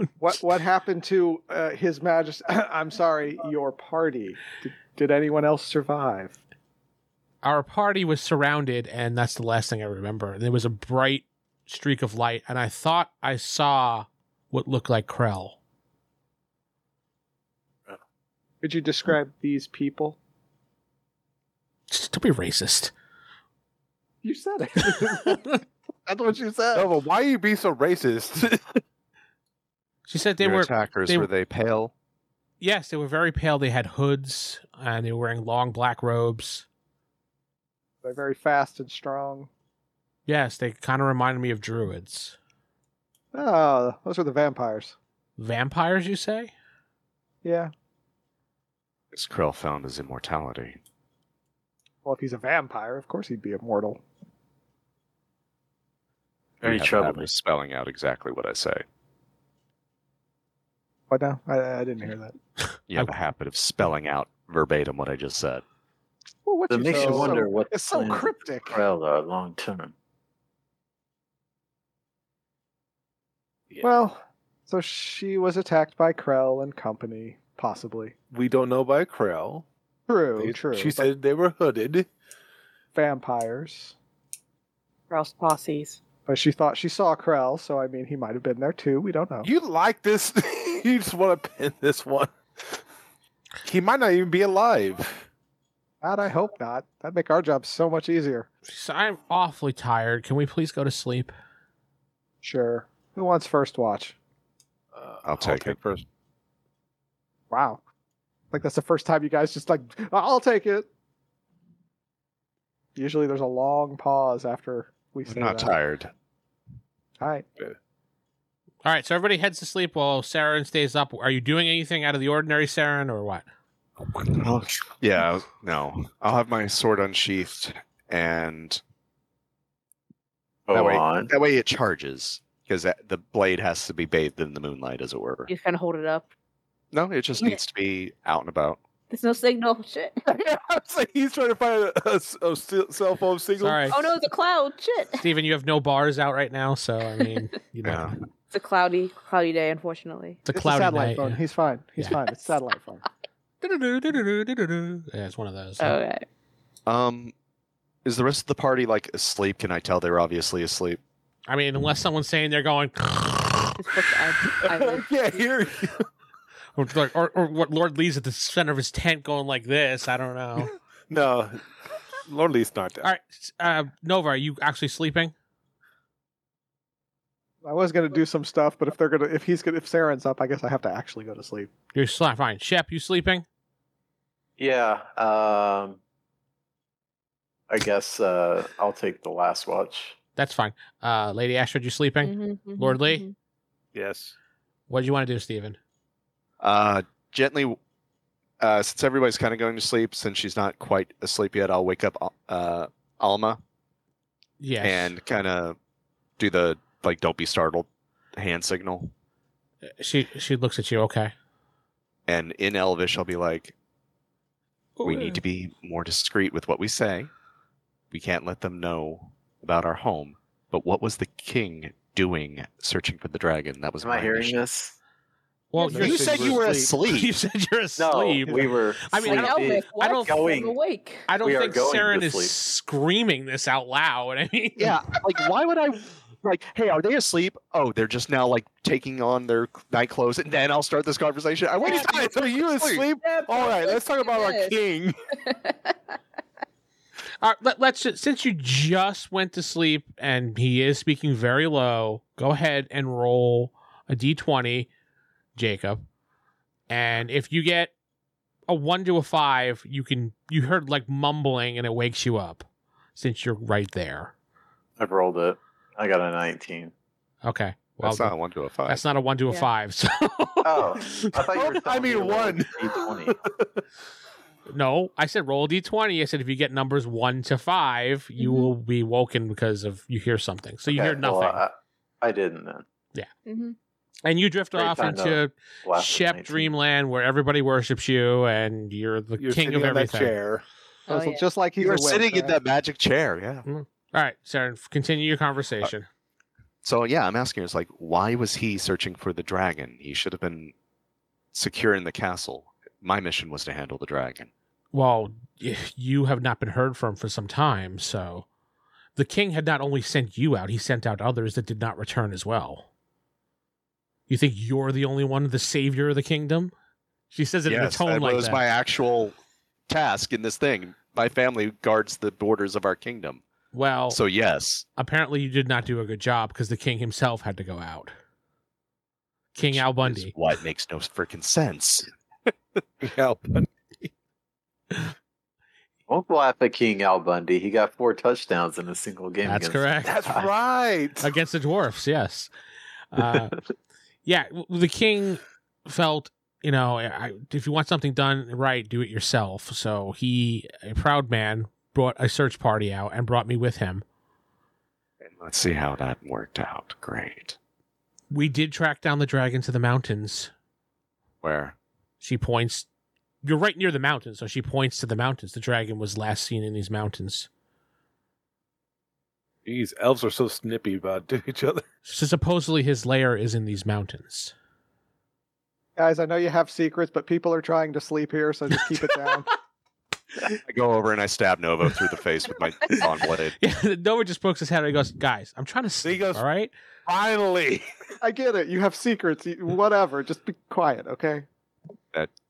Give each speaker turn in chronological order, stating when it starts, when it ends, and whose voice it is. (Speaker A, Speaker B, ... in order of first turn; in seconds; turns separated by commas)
Speaker A: 0.2-6.4, Speaker B: 7.4-15.6, Speaker A: 18.6-20.2, Speaker B: 21.9-22.9, Speaker A: 24.2-27.0, Speaker C: 26.7-28.8, Speaker B: 30.1-31.3, Speaker D: 30.4-31.9, Speaker B: 32.6-36.7, Speaker A: 38.0-39.5, Speaker B: 40.3-42.4, Speaker A: 43.3-45.0, Speaker B: 45.4-46.5, Speaker A: 47.4-47.7, Speaker D: 49.1-50.8, Speaker A: 52.0-54.0, Speaker E: 56.6-57.3, Speaker D: 56.6-58.8, Speaker A: 61.1-62.4, Speaker D: 62.9-65.6, Speaker A: 66.5-68.8, Speaker E: 66.7-69.9, Speaker A: 73.8-78.2, Speaker C: 78.3-79.7, Speaker A: 80.1-81.1, Speaker C: 80.4-82.1, Speaker A: 82.9-83.9, Speaker F: 85.1-86.0, Speaker A: 86.3-89.5, Speaker C: 89.4-92.8, Speaker C: 93.6-95.3, Speaker A: 96.0-98.5, Speaker B: 98.7-101.3, Speaker A: 102.4-104.2, Speaker C: 104.9-106.0, Speaker D: 105.2-105.8, Speaker A: 107.5-107.8, Speaker A: 108.5-110.9, Speaker A: 113.0-115.8, Speaker D: 115.3-116.1, Speaker A: 117.2-117.5, Speaker B: 118.8-123.5, Speaker D: 124.3-128.8, Speaker E: 130.7-131.3, Speaker D: 130.7-135.5, Speaker F: 135.5-136.3, Speaker D: 136.9-138.8, Speaker F: 139.1-140.2, Speaker C: 140.3-144.0, Speaker B: 143.6-144.0, Speaker F: 143.9-145.2, Speaker B: 145.2-148.2, Speaker D: 147.8-148.2, Speaker F: 148.5-150.4, Speaker B: 150.5-151.4, Speaker A: 150.5-153.1, Speaker B: 153.6-155.9, Speaker F: 155.8-156.3, Speaker D: 156.9-157.3, Speaker D: 158.0-161.0, Speaker B: 161.5-163.8, Speaker F: 163.8-165.4, Speaker C: 164.6-166.1, Speaker B: 166.8-170.7, Speaker C: 170.7-171.6, Speaker C: 172.3-173.1, Speaker B: 173.0-175.3, Speaker A: 177.6-181.7, Speaker B: 181.9-183.4, Speaker E: 184.6-186.0, Speaker E: 187.7-190.2, Speaker B: 190.4-193.2, Speaker F: 192.2-193.3, Speaker C: 193.9-194.3, Speaker B: 194.9-195.8, Speaker D: 196.6-197.8, Speaker D: 198.6-203.6, Speaker B: 204.6-205.2, Speaker D: 204.8-205.8, Speaker D: 206.4-209.1, Speaker B: 210.0-211.3, Speaker D: 212.3-213.8, Speaker B: 215.0-215.4, Speaker D: 215.0-217.3, Speaker D: 218.1-224.6, Speaker E: 224.0-225.0, Speaker B: 225.7-230.4, Speaker C: 225.8-226.9, Speaker D: 225.9-227.3, Speaker E: 228.0-230.8, Speaker F: 229.2-231.3, Speaker B: 231.3-235.2, Speaker E: 231.4-232.5, Speaker D: 234.8-243.1, Speaker C: 241.9-245.2, Speaker F: 243.2-244.8, Speaker F: 245.4-245.9, Speaker B: 247.4-254.9, Speaker B: 255.6-256.0, Speaker B: 256.9-257.9, Speaker B: 258.7-262.6, Speaker B: 263.2-264.3, Speaker E: 265.0-266.9, Speaker B: 267.4-268.3, Speaker D: 268.0-269.1, Speaker B: 268.9-271.4, Speaker E: 270.6-273.4, Speaker C: 271.5-273.7, Speaker B: 274.7-281.6, Speaker F: 278.4-278.7, Speaker E: 280.9-282.8, Speaker F: 283.5-283.8, Speaker B: 284.2-290.4, Speaker E: 284.7-286.7, Speaker C: 289.4-290.6, Speaker F: 291.1-291.4, Speaker A: 291.1-292.6, Speaker D: 291.8-293.6, Speaker B: 293.7-296.1, Speaker D: 296.8-300.7, Speaker D: 301.5-304.5, Speaker B: 304.9-308.5, Speaker B: 309.2-312.9, Speaker B: 314.3-316.7, Speaker B: 317.3-318.6, Speaker D: 317.7-319.4, Speaker D: 319.9-323.4, Speaker B: 323.7-324.2, Speaker D: 324.1-324.9, Speaker B: 325.0-328.1, Speaker B: 329.5-330.3, Speaker D: 329.6-332.1, Speaker C: 333.0-333.7, Speaker E: 336.1-340.5, Speaker B: 339.4-340.3, Speaker C: 340.0-341.3, Speaker B: 341.2-342.5, Speaker B: 343.1-343.6, Speaker B: 344.2-354.0, Speaker D: 355.2-357.6, Speaker B: 358.3-360.5, Speaker D: 361.4-361.8, Speaker B: 362.2-362.9, Speaker B: 363.4-367.5, Speaker C: 369.6-371.8, Speaker B: 372.1-374.5, Speaker A: 376.0-379.5, Speaker D: 380.6-383.6, Speaker B: 383.6-386.7, Speaker C: 386.0-386.4, Speaker C: 387.1-387.8, Speaker A: 388.2-391.5